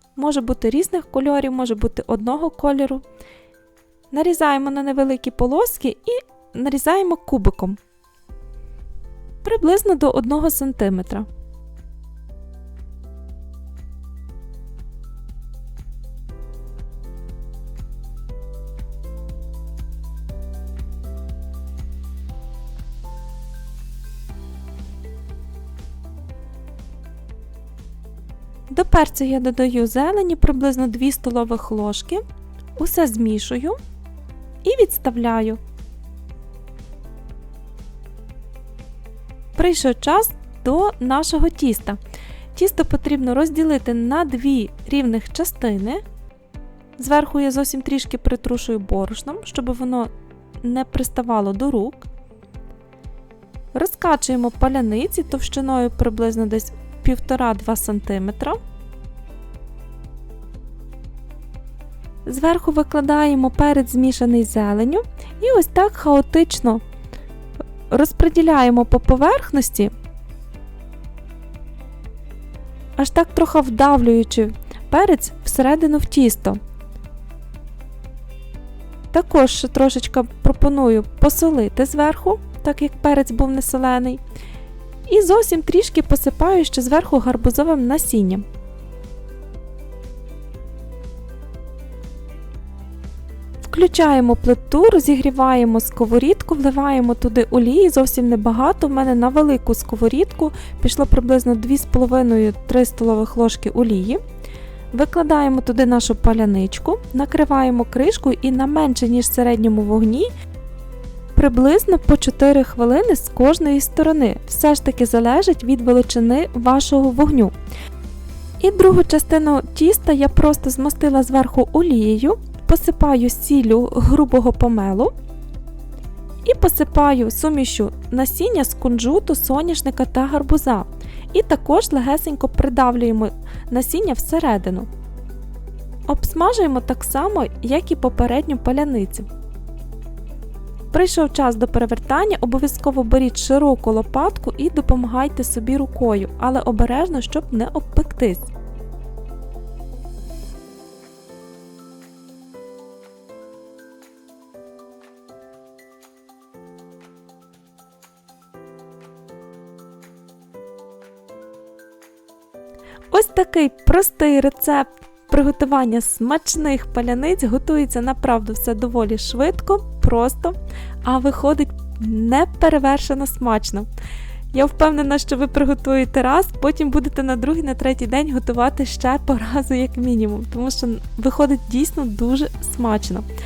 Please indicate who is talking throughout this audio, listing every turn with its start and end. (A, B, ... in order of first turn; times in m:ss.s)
0:00.2-0:03.0 A
0:04.1-0:07.8 A
0:09.4-0:11.3 A
0:28.7-0:32.2 A
0:32.8-0:33.8 A
0:34.6-0:35.6 A
0:39.6-0:42.0 A
0:42.5-0:46.0 A
0:47.0-0:50.1 A
0:50.6-0:52.1 A
0:53.7-0:58.6 A
1:02.2-1:06.8 A
1:07.9-1:09.9 A
1:13.0-1:16.6 A
1:19.1-1:24.2 A
1:25.1-1:28.4 A
1:33.6-1:44.2 A
1:44.9-1:50.3 A
1:51.3-1:57.5 A
1:58.6-2:05.1 A
2:06.4-2:14.9 A
2:16.1-2:19.3 A
2:20.9-2:28.5 A
2:43.1-2:53.9 A
2:54.5-3:03.3 A